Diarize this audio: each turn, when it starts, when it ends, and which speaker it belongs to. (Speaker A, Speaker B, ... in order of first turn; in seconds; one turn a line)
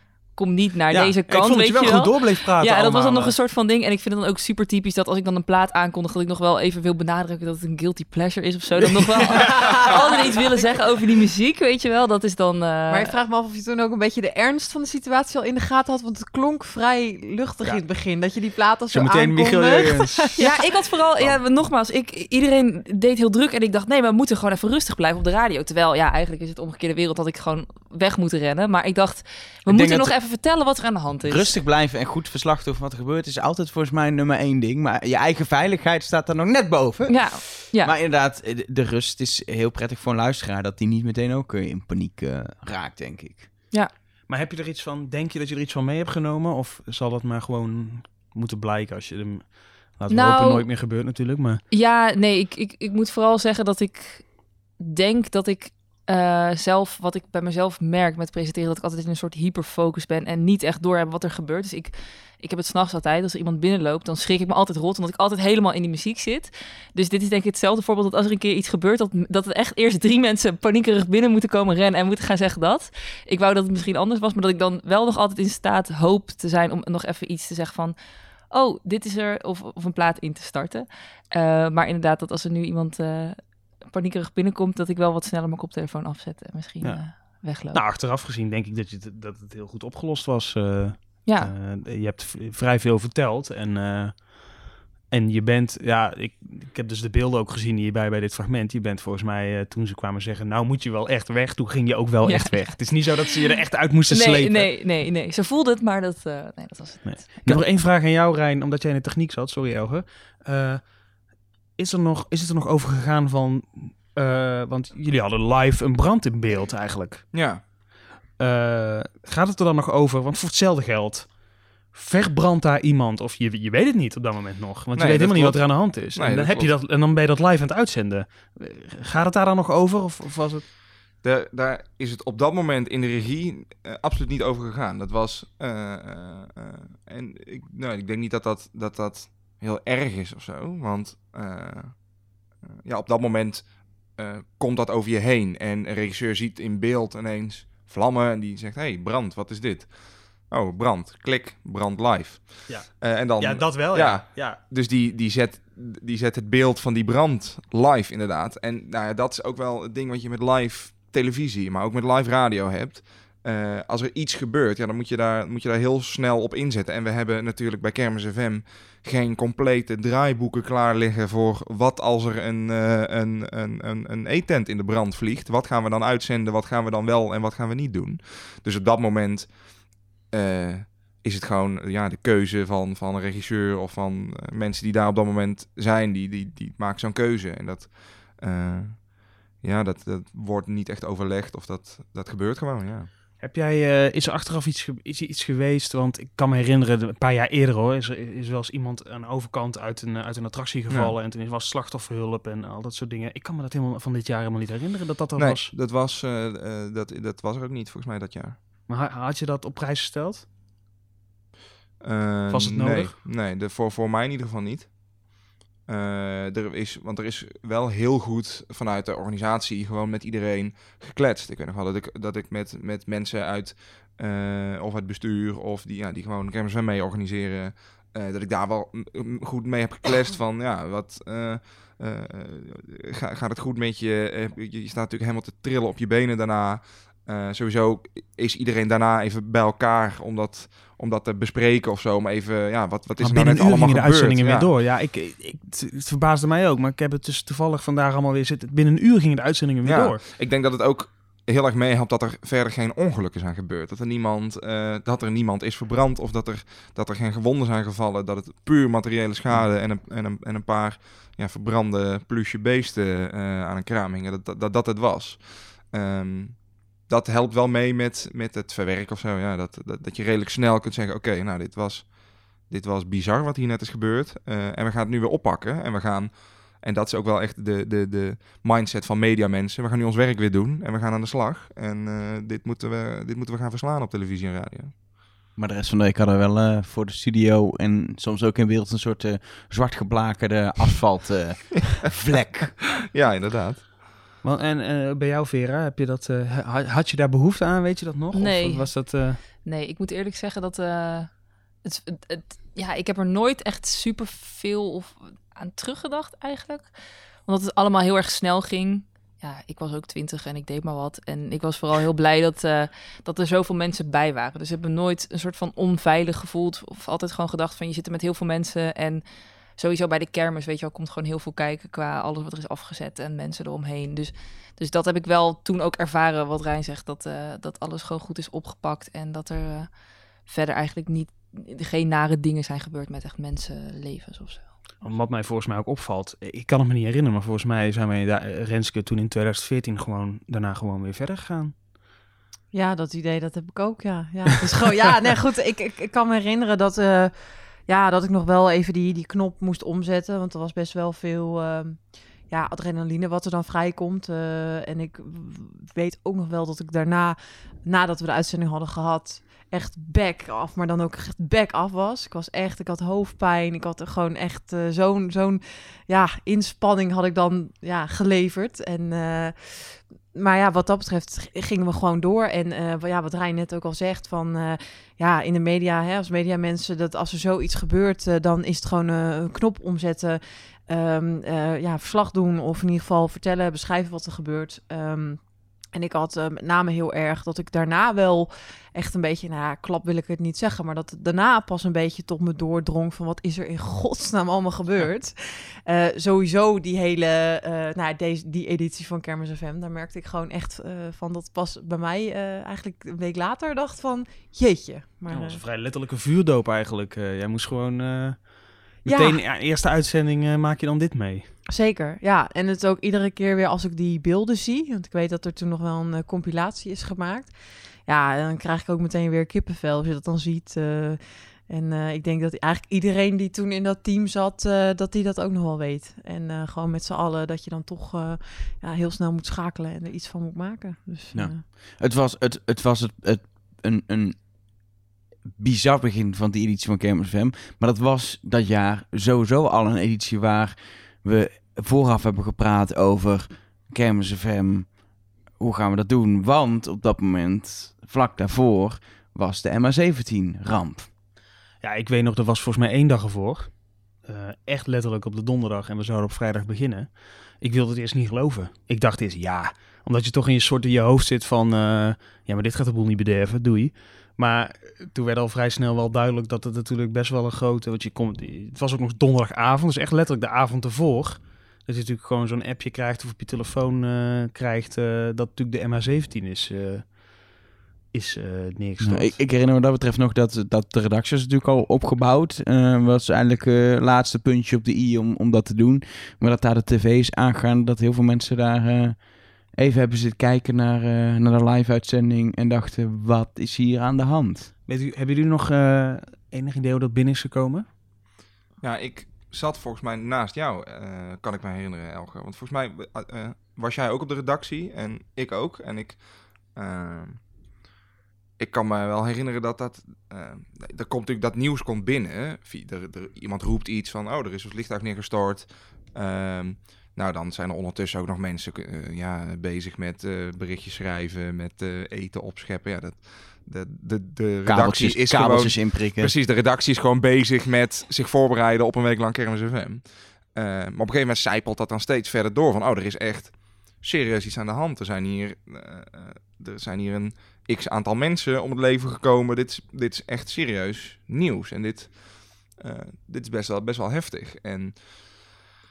Speaker A: 0.3-13.1
Speaker B: 0.9-3.4
Speaker C: 9.5-9.9
Speaker C: 12.9-20.6
Speaker B: 18.9-20.3
Speaker A: 20.4-31.5
Speaker D: 29.6-30.1
Speaker D: 31.2-43.5
Speaker A: 37.1-37.9
Speaker B: 44.3-51.6
Speaker A: 50.1-50.6
Speaker A: 51.7-54.3
Speaker A: 54.8-78.0
Speaker A: 78.5-87.8
Speaker B: 86.8-87.2
Speaker B: 87.7-94.3
Speaker A: 91.2-91.5
Speaker B: 95.1-104.7
Speaker A: 102.2-103.3
Speaker A: 104.1-107.3
Speaker B: 107.0-110.9
Speaker B: 111.8-117.2
Speaker E: 117.3-117.6
Speaker B: 118.4-121.3
Speaker B: 121.9-130.6
Speaker E: 124.9-126.7
Speaker E: 131.2-142.0
Speaker E: 142.8-179.6
Speaker B: 152.7-154.6
Speaker E: 180.3-189.1
Speaker E: 189.6-193.1
Speaker B: 193.4-205.7
Speaker E: 200.9-201.1
Speaker E: 205.4-208.6
Speaker B: 208.9-210.4
Speaker E: 212.0-214.9
Speaker B: 212.5-213.2
Speaker E: 215.9-244.7
Speaker B: 243.2-250.2
Speaker E: 249.8-284.9
Speaker D: 285.6-292.8
Speaker E: 293.1-293.9
Speaker B: 294.4-299.4
Speaker A: 298.3-301.3
Speaker A: 301.8-306.9
Speaker A: 307.4-319.2
Speaker A: 319.8-329.9
Speaker A: 330.4-334.7
Speaker B: 335.0-341.7
Speaker C: 342.7-347.3
Speaker C: 347.9-385.4
Speaker C: 385.9-405.6
Speaker B: 405.3-411.5
Speaker C: 409.1-409.4
Speaker C: 411.7-417.5
Speaker C: 418.1-431.6
Speaker D: 431.3-434.4
Speaker D: 435.6-444.9
Speaker D: 445.6-451.1
Speaker B: 451.8-477.2
Speaker B: 478.1-479.4
Speaker D: 479.0-489.2
Speaker D: 489.7-494.7
Speaker B: 494.9-497.9
Speaker E: 498.8-506.2
Speaker E: 506.7-507.4
Speaker E: 508.6-530.0
Speaker D: 524.6-526.3
Speaker E: 530.5-545.1